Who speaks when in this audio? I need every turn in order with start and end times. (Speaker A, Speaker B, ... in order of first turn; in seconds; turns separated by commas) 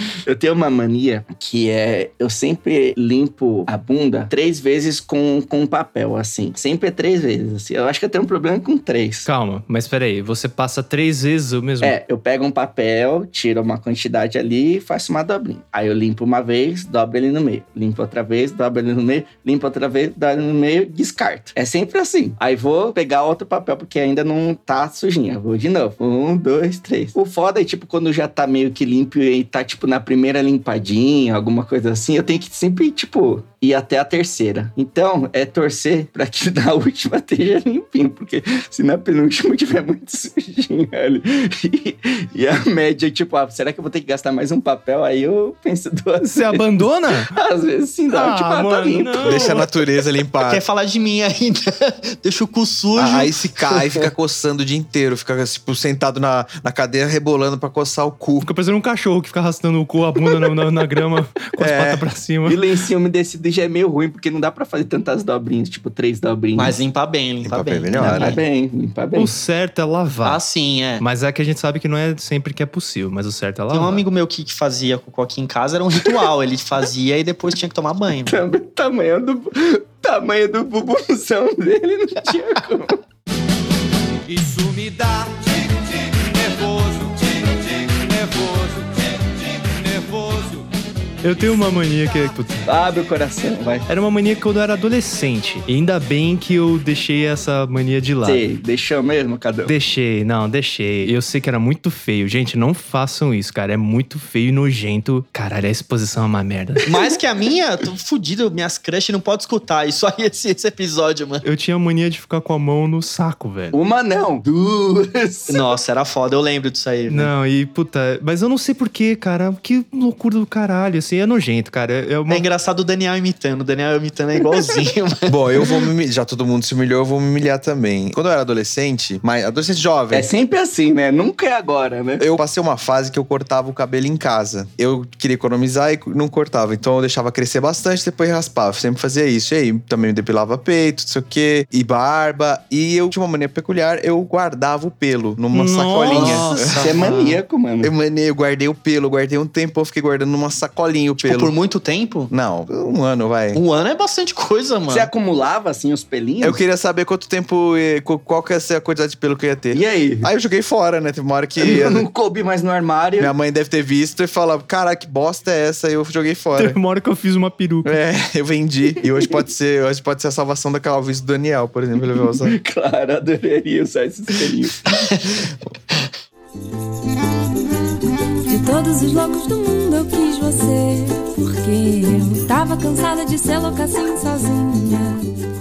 Speaker A: 0.2-9.3, Speaker B: 9.3-11.9, Speaker A: 11.8-49.6, Speaker B: 46.2-47.3, Speaker B: 48.1-49.7, Speaker C: 49.2-50.6, Speaker D: 50.4-54.0, Speaker C: 52.9-58.5, Speaker B: 58.4-62.6, Speaker C: 61.6-62.0, Speaker A: 62.4-66.8, Speaker D: 66.5-68.4, Speaker C: 67.4-68.4, Speaker A: 68.1-69.3, Speaker B: 69.1-70.4, Speaker D: 70.2-71.0, Speaker B: 71.0-74.0, Speaker D: 73.7-78.4, Speaker A: 78.2-83.0, Speaker E: 84.3-90.7, Speaker B: 91.2-92.7, Speaker A: 92.7-93.9, Speaker B: 93.9-98.5, Speaker A: 98.2-99.7, Speaker B: 99.6-106.9, Speaker D: 106.9-111.5, Speaker B: 111.4-113.8, Speaker A: 113.7-115.7, Speaker D: 115.5-117.3, Speaker B: 117.1-122.5, Speaker D: 122.3-125.4, Speaker C: 125.3-130.3, Speaker A: 130.1-132.2, Speaker C: 132.2-146.8, Speaker B: 145.5-146.5, Speaker D: 146.1-147.4, Speaker A: 146.7-147.9, Speaker C: 147.8-151.5, Speaker D: 151.2-152.3, Speaker C: 152.3-153.6, Speaker D: 153.5-155.1, Speaker A: 154.9-156.6, Speaker C: 156.4-162.0, Speaker A: 159.7-160.3, Speaker A: 161.6-163.3, Speaker C: 163.2-166.8, Speaker B: 166.6-167.9, Speaker C: 167.8-172.6, Speaker A: 172.1-175.0, Speaker D: 174.9-175.4, Speaker F: 178.5-185.3